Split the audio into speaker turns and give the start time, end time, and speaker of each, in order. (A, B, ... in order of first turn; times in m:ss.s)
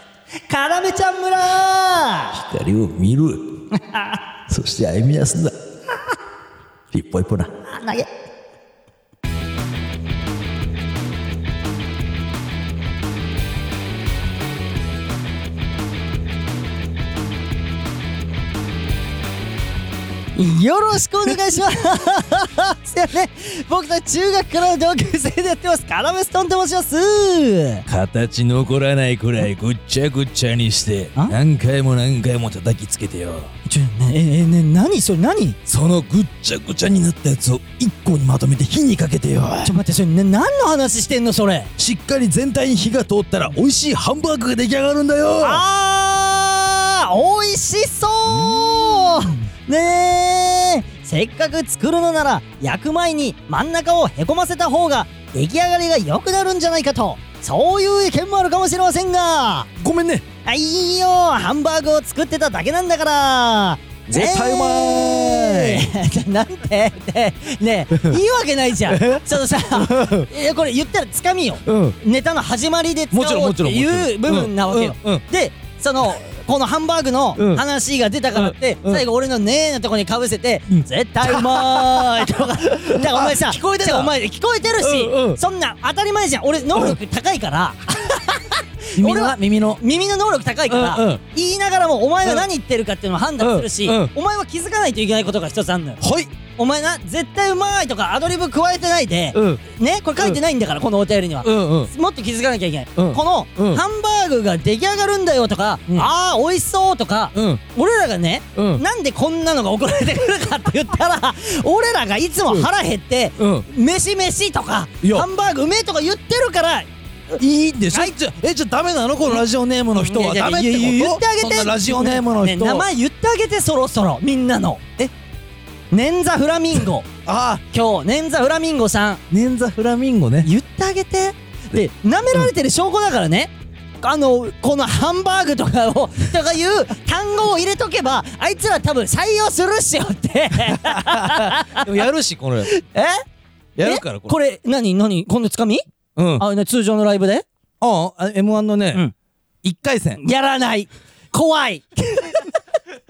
0:00.5-0:02.3 A
0:02.3-0:03.6 B
0:03.7-0:04.2 A
0:04.5-0:05.6 B
0:06.9-0:07.5 B
0:07.6-0:08.1 A
0:20.4-0:27.9 A
0:27.9-0:33.5 B
0:33.6-0:35.6 A
0:35.7-0:39.8 B
0:39.6-0:41.7 A
0:41.8-0:45.6 B
0:45.4-0:59.7 A
0:59.8-1:00.2 B
1:00.4-1:36.0 A
1:04.1-1:05.9 B
1:07.9-1:08.2 B
1:08.9-1:10.3 B
1:11.6-1:12.0 B
1:13.1-1:15.2 B
1:17.4-1:17.6 B
1:18.3-1:19.1 B
1:20.7-1:24.1 B
1:24.8-1:25.4 B
1:29.0-1:29.8 B
1:30.7-1:31.2 B
1:33.4-1:34.1 B
1:36.0-1:36.3 B
1:36.6-1:57.4 A
1:39.3-1:39.6 B
1:41.4-1:41.9 B
1:43.0-1:43.8 B
1:47.3-1:47.6 B
1:48.6-1:48.8 B
1:53.4-1:53.6 B
1:55.0-1:55.3 B
1:57.4-2:02.9 B
1:57.9-1:58.2 A
2:00.0-2:05.1 A
2:05.9-2:07.1 A
2:07.3-2:07.6 B
2:07.7-2:09.2 A
2:09.3-2:10.5 B
2:10.4-2:22.0 A
2:20.7-2:22.7 B
2:22.7-2:23.2 A
2:23.8-2:24.4 B
2:23.8-2:25.8 A
2:26.2-2:26.4 B
2:26.4-2:27.4 A
2:27.8-2:29.0 B
2:29.6-2:30.2 B
2:30.2-2:32.5 A